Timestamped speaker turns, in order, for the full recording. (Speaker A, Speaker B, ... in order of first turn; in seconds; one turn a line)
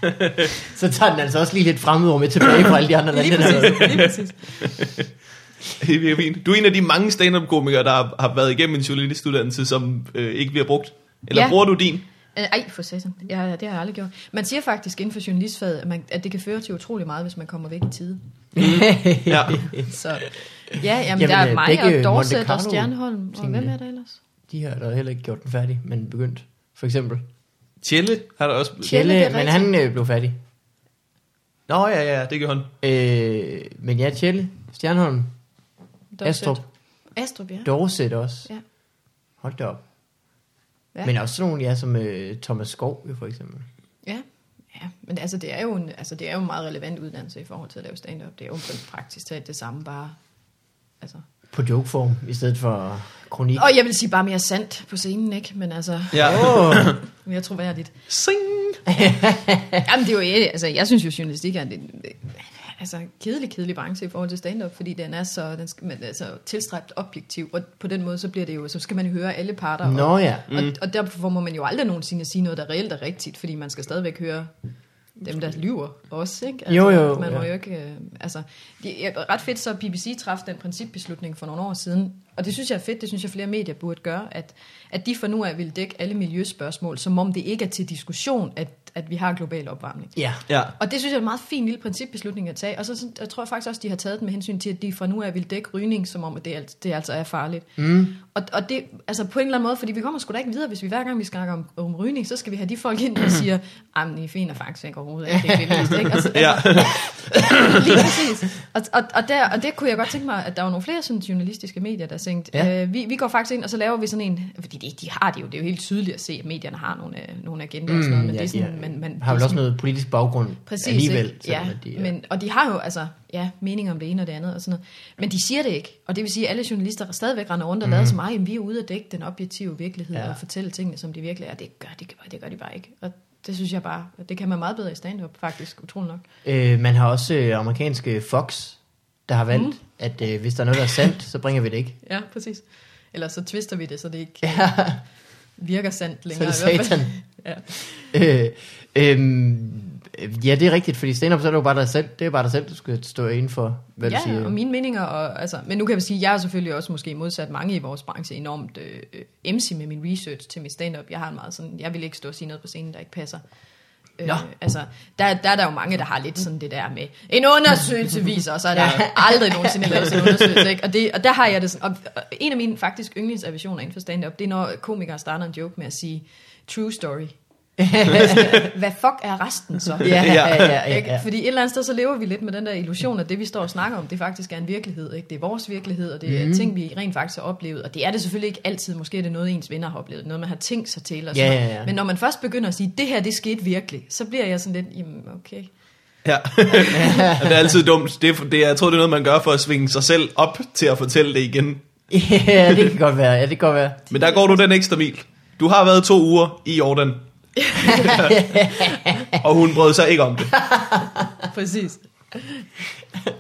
Speaker A: 0.6-4.2
Speaker B: 3.1-4.7
Speaker C: 4.6-4.9
Speaker C: 5.8-12.0
Speaker B: 11.3-18.2
Speaker A: 18.6-19.9
Speaker C: 18.6-19.8
Speaker B: 19.9-24.2
Speaker A: 21.1-23.8
Speaker A: 24.5-27.2
Speaker C: 27.8-28.9
Speaker B: 28.8-29.7
Speaker A: 28.8-30.4
Speaker C: 31.7-32.7
Speaker A: 32.8-35.3
Speaker B: 36.1-37.7
Speaker A: 36.2-36.6
Speaker A: 37.6-38.5
Speaker A: 39.4-39.8
Speaker A: 41.0-43.7
Speaker B: 44.0-50.2
Speaker A: 51.5-53.7
Speaker B: 53.6-58.1
Speaker C: 56.1-57.0
Speaker A: 56.2-57.0
Speaker C: 58.1-58.8
Speaker A: 58.9-59.9
Speaker B: 59.8-74.5
Speaker A: 69.8-70.5
Speaker B: 75.2-90.2
Speaker A: 76.7-77.5
Speaker C: 90.5-90.7
Speaker B: 90.8-119.6
Speaker A: 97.8-98.2
Speaker A: 105.4-105.9
Speaker C: 106.2-107.8
Speaker A: 117.9-122.1
Speaker B: 120.7-136.2
Speaker A: 127.8-128.2
Speaker A: 130.1-130.4
Speaker A: 136.4-142.0
Speaker B: 139.5-139.8
Speaker B: 142.0-144.7
Speaker A: 144.4-145.0
Speaker B: 145.6-148.1
Speaker A: 146.3-147.1
Speaker A: 148.1-154.6
Speaker B: 154.0-163.4
Speaker B: 164.2-177.3
Speaker A: 168.7-170.7
Speaker A: 177.8-178.7
Speaker B: 178.0-195.7
Speaker A: 180.0-181.2
Speaker C: 180.1-180.8
Speaker A: 186.3-186.7
Speaker A: 191.3-191.9
Speaker C: 196.2-201.8
Speaker B: 196.7-197.3
Speaker A: 196.9-197.7
Speaker A: 202.1-204.0
Speaker B: 204.1-204.6
Speaker C: 204.1-207.2
Speaker B: 207.6-208.2
Speaker C: 207.8-208.4
Speaker A: 207.9-209.4
Speaker C: 209.3-210.6
Speaker A: 210.6-211.3
Speaker B: 211.5-212.7